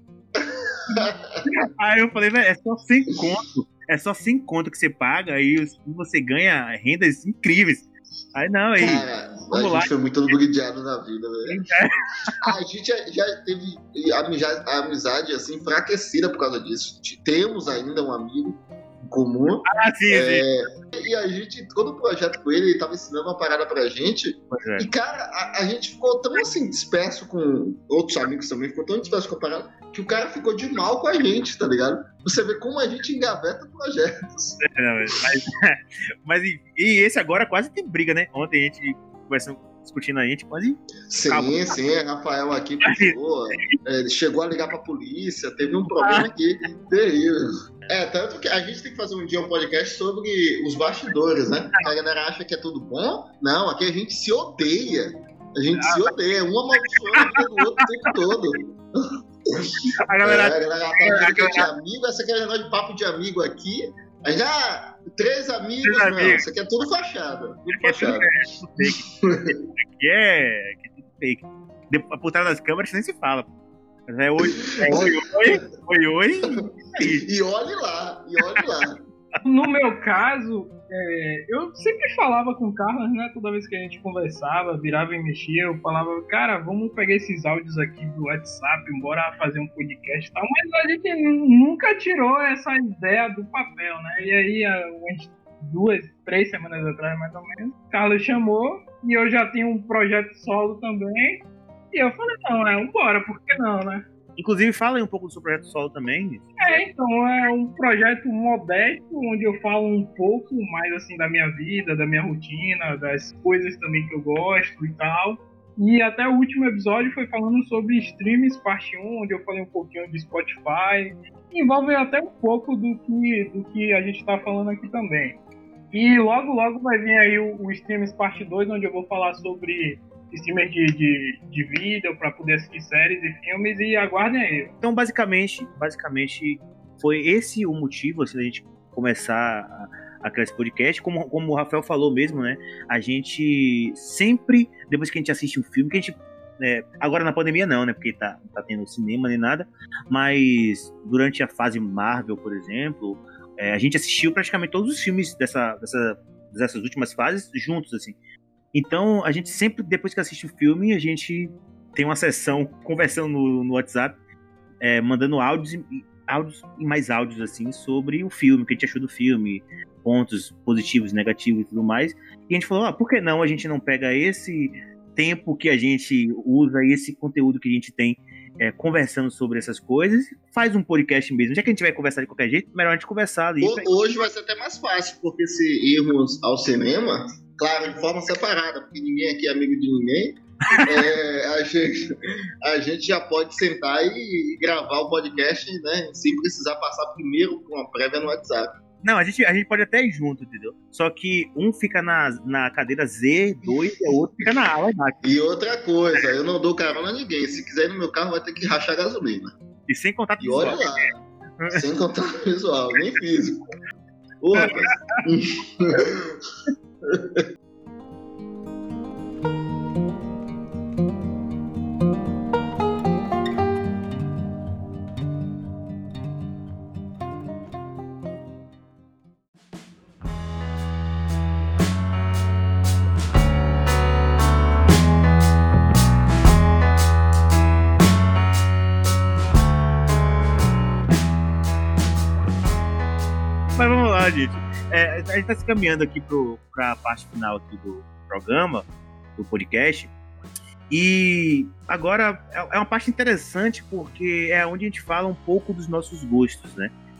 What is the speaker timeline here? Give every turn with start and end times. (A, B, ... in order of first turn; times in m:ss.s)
0:00.3-0:01.4 A
0:00.9-0:09.9 B
0:08.8-0:11.6 A
0:11.5-0:12.5 B
0:12.4-0:34.6 A
0:19.7-0:20.4 B
0:24.5-0:24.9 B
0:34.6-0:41.7 B
0:41.1-0:58.7 A
0:42.9-0:43.1 B
0:55.8-0:56.1 B
0:57.2-0:57.6 B
1:00.0-1:01.7 B
1:00.2-1:09.5 A
1:05.8-1:06.4 B
1:07.7-1:09.1 B
1:09.9-1:13.5 B
1:14.1-1:17.2 B
1:14.6-1:15.6 A
1:17.2-1:19.0 A
1:19.4-1:44.0 C
1:44.4-1:46.8 B
1:46.6-2:05.4 C
2:05.9-2:14.7 C
2:14.8-2:38.2 B
2:38.7-2:44.2 B
2:44.8-3:03.9 B
3:03.6-3:11.9 A
3:10.7-3:11.0 B
3:12.6-3:18.7 A
3:19.0-3:25.3 B
3:25.2-3:29.5 A
3:29.9-3:31.1 B
3:30.4-3:31.1 A
3:31.7-3:33.7 A
3:34.4-3:36.4 A
3:34.6-3:35.2 B
3:37.0-3:37.4 A
4:03.8-4:10.1 B
4:10.9-4:16.9 B